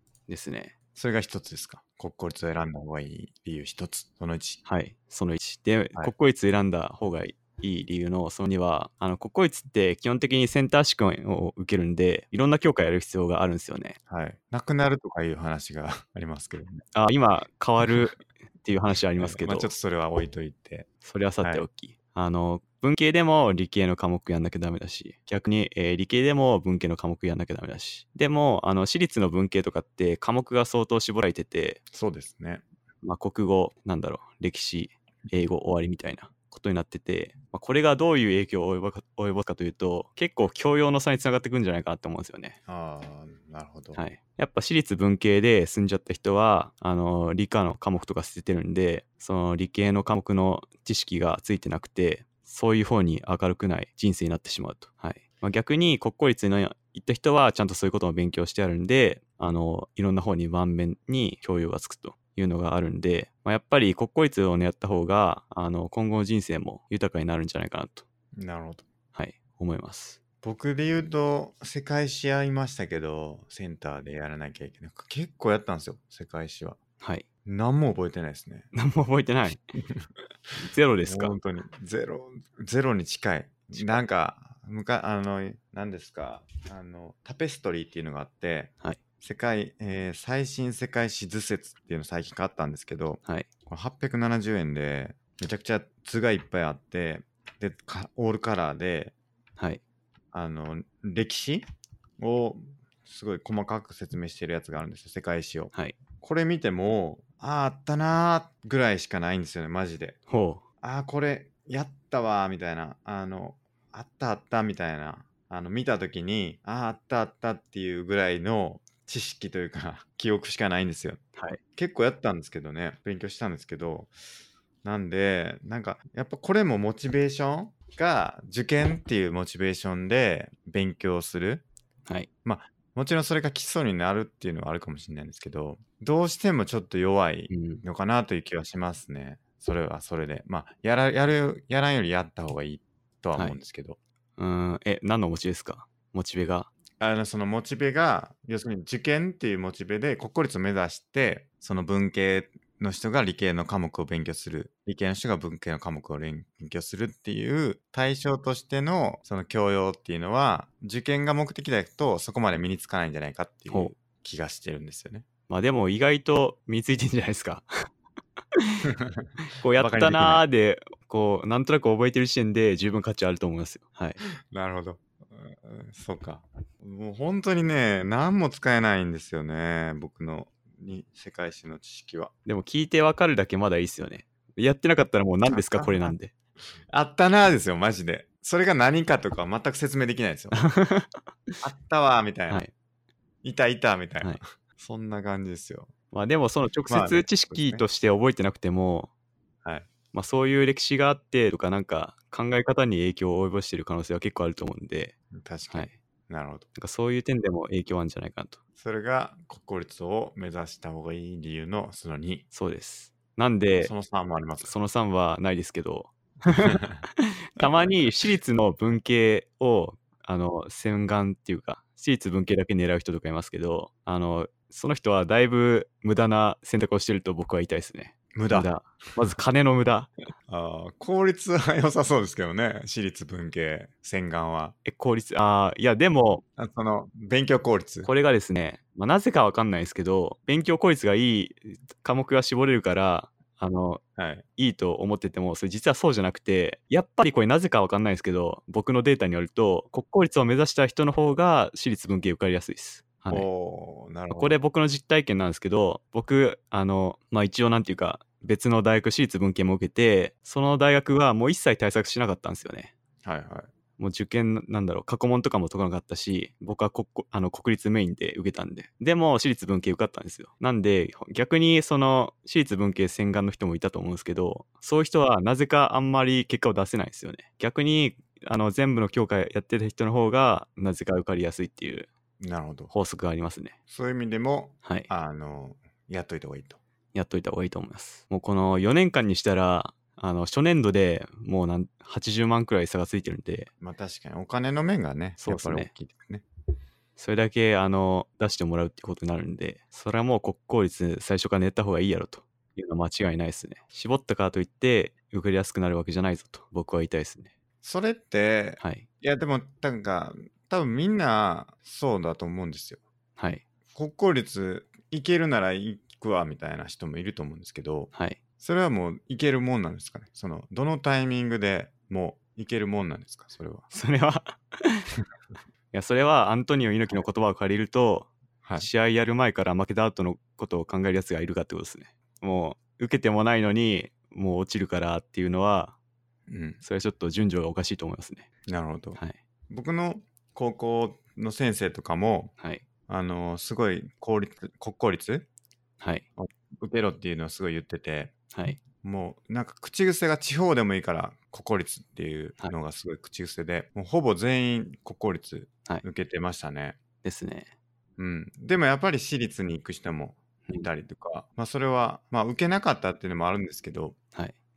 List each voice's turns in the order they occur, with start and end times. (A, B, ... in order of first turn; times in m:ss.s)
0:00.3-0:00.7 A
0:01.0-0:04.6 B
0:04.6-0:14.0 A
0:14.1-0:16.8 B
0:16.9-0:19.7 A
0:19.2-0:20.9 B
0:21.0-0:31.8 A
0:21.4-0:21.7 B
0:31.9-0:32.6 B
0:33.0-0:42.6 A
0:42.7-0:44.0 B
0:44.0-1:08.0 A
1:08.3-1:08.9 B
1:09.1-1:10.2 A
1:10.4-1:16.8 B
1:17.0-1:17.3 A
1:17.4-1:18.7 B
1:18.7-1:19.6 A
1:19.8-1:20.1 B
1:20.6-1:21.4 A
1:21.0-1:39.1 B
1:23.8-1:24.0 A
1:40.3-1:41.6 B
1:42.2-1:50.2 B
1:50.3-1:50.6 A
1:50.8-2:01.2 B
2:01.8-2:04.1 B
2:04.8-2:11.7 B
2:12.4-2:24.0 B
2:17.5-2:17.8 A
2:24.4-2:26.7 A
2:27.0-2:45.3 B
2:45.5-2:47.7 A
2:48.5-2:48.9 A
2:48.8-2:50.4 B
2:49.6-2:54.2 A
2:54.5-3:02.3 B
3:02.5-3:06.3 A
3:05.5-3:06.2 B
3:06.9-3:10.6 B
3:10.5-3:11.6 A
3:11.6-3:12.7 B
3:13.4-3:15.9 B
3:16.1-3:19.1 A
3:16.9-3:17.8 B
3:19.6-3:19.9 B
3:20.1-3:25.2 A
3:25.3-3:26.7 B
3:26.8-3:28.6 A
3:28.8-3:32.4 B
3:32.5-3:33.9 A
3:33.8-3:34.7 B
3:34.6-3:50.1 A
3:36.5-3:37.0 B
3:37.6-3:38.0 B
3:48.3-3:48.7 B
3:50.5-3:54.8 B
3:54.8-3:56.4 A
3:56.6-3:58.1 B
3:58.0-4:04.0 A
4:04.2-4:04.4 B
4:04.6-4:13.5 A
4:13.3-4:14.6 B
4:14.3-4:22.9 A
4:23.2-4:23.7 B
4:24.0-4:42.1 A
4:42.4-4:42.9 B
4:42.9-4:43.8 A
4:43.9-4:46.8 B
4:44.8-4:45.1 A
4:47.1-4:53.7 A
4:53.8-4:56.4 B
4:55.4-4:55.9 A
4:57.2-5:07.5 A
5:07.8-5:13.0 B
5:08.8-5:09.1 A
5:13.4-5:13.6 A
5:13.9-5:23.9 B
5:18.1-5:18.4 A
5:23.9-5:25.1 A
5:25.9-5:36.0 A
5:36.5-5:36.8 B
5:36.8-5:38.5 A
5:38.7-5:42.5 B
5:42.6-5:42.8 A
5:43.1-5:45.5 B
5:46.0-5:46.3 A
5:46.4-5:48.3 B
5:48.5-5:48.8 A
5:49.0-5:57.0 B
5:57.2-5:57.7 A
5:58.2-6:04.2 B